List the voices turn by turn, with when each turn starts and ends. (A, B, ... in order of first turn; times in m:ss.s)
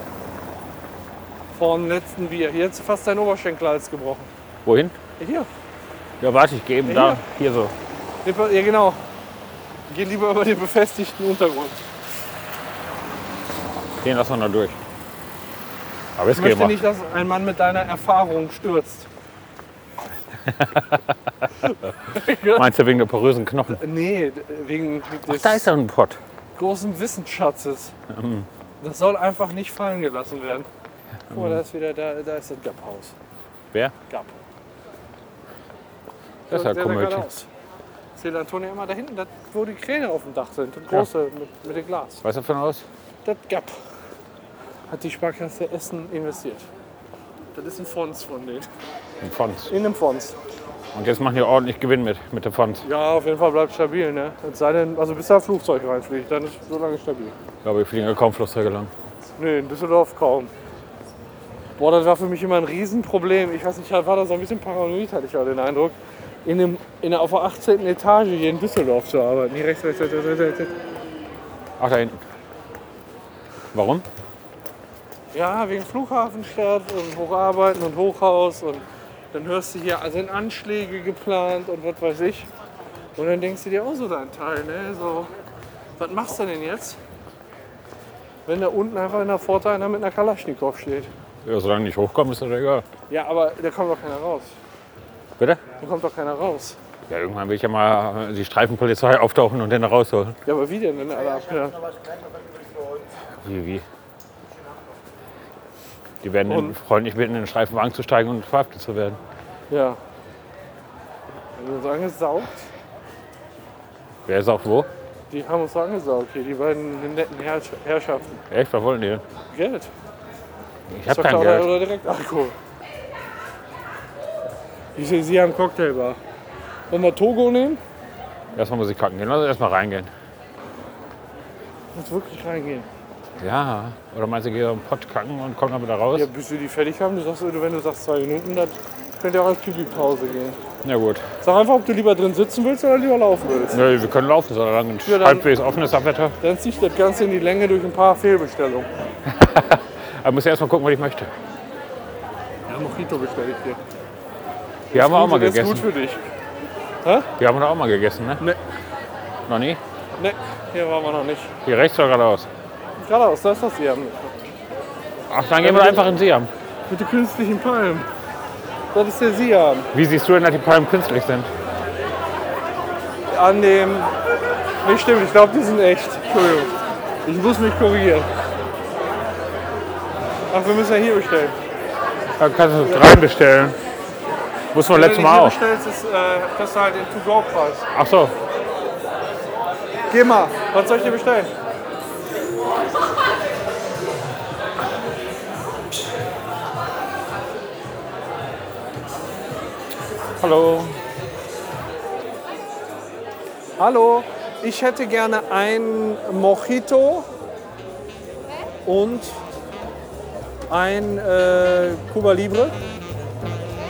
0:01.5-0:04.3 A
0:04.6-0:05.0 B
0:05.2-0:05.5 A
0:06.2-0:07.7 B
0:06.8-0:07.2 A
0:08.2-0:09.0 A
0:09.9-0:11.9 A
0:14.0-0:14.8 B
0:16.2-0:16.8 B
0:16.3-0:19.1 A
0:20.5-0:21.0 B
0:22.0-0:22.7 A
0:22.3-0:23.8 B
0:23.7-0:25.7 A
0:25.3-0:26.2 B
0:26.6-0:27.9 A
0:28.1-0:28.5 B
0:28.8-0:30.7 A
0:31.3-0:31.6 B
0:31.3-0:33.1 A
0:34.1-0:34.3 A
0:36.5-0:37.3 B
0:36.5-0:37.5 A
0:38.2-0:42.2 A
0:42.2-0:42.8 B
0:43.2-0:43.7 A
0:44.9-0:46.6 A
0:47.5-0:48.7 A
0:49.2-0:49.7 B
0:49.7-0:50.4 A
0:50.9-0:52.8 B
0:52.8-0:57.3 A
0:57.6-0:58.9 B
0:59.4-1:00.5 A
1:01.8-1:10.7 A
1:11.8-1:12.2 B
1:13.7-1:14.0 B
1:15.3-1:22.5 A
1:23.2-1:25.3 A
1:26.0-1:27.0 A
1:28.4-1:31.1 A
1:31.4-1:32.8 B
1:33.1-1:34.5 A
1:35.8-1:36.8 A
1:37.1-1:40.4 B
1:40.4-1:42.0 A
1:43.4-1:43.8 B
1:46.2-1:49.2 B
1:46.5-1:46.8 A
1:49.7-1:50.0 A
1:51.6-1:52.6 A
1:54.2-1:54.9 B
1:55.3-1:58.4 A
1:58.5-1:59.2 B
1:59.5-1:59.9 A
2:00.9-2:01.7 B
2:01.1-2:02.6 A
2:05.0-2:06.2 A
2:06.9-2:07.8 A
2:08.5-2:10.1 B
2:11.9-2:12.9 A
2:13.4-2:16.3 B
2:16.1-2:20.6 A
2:20.8-2:21.2 B
2:21.4-2:23.8 A
2:23.7-2:26.3 B
2:25.0-2:25.5 A
2:26.4-2:28.9 A
2:29.2-2:31.3 B
2:32.7-2:33.8 A
2:34.9-2:36.2 A
2:34.9-2:35.9 B
2:37.4-2:38.4 B
2:39.5-2:39.8 B
2:40.2-2:41.5 A
2:41.6-2:42.5 B
2:43.0-2:44.4 A
2:45.3-2:46.5 B
2:45.6-2:46.2 A
2:46.9-2:48.1 A
2:48.9-2:49.9 A
2:49.9-2:51.5 B
2:53.3-2:54.1 A
2:54.8-2:56.7 A
2:57.2-2:58.3 A
3:00.5-3:01.6 A
3:02.4-3:03.8 B
3:04.7-3:05.6 B
3:04.9-3:07.9 A
3:07.9-3:08.3 B
3:10.1-3:11.5 A
3:20.4-3:21.0 B
3:23.8-3:27.3 A
3:28.8-3:29.4 A
3:30.7-3:32.7 A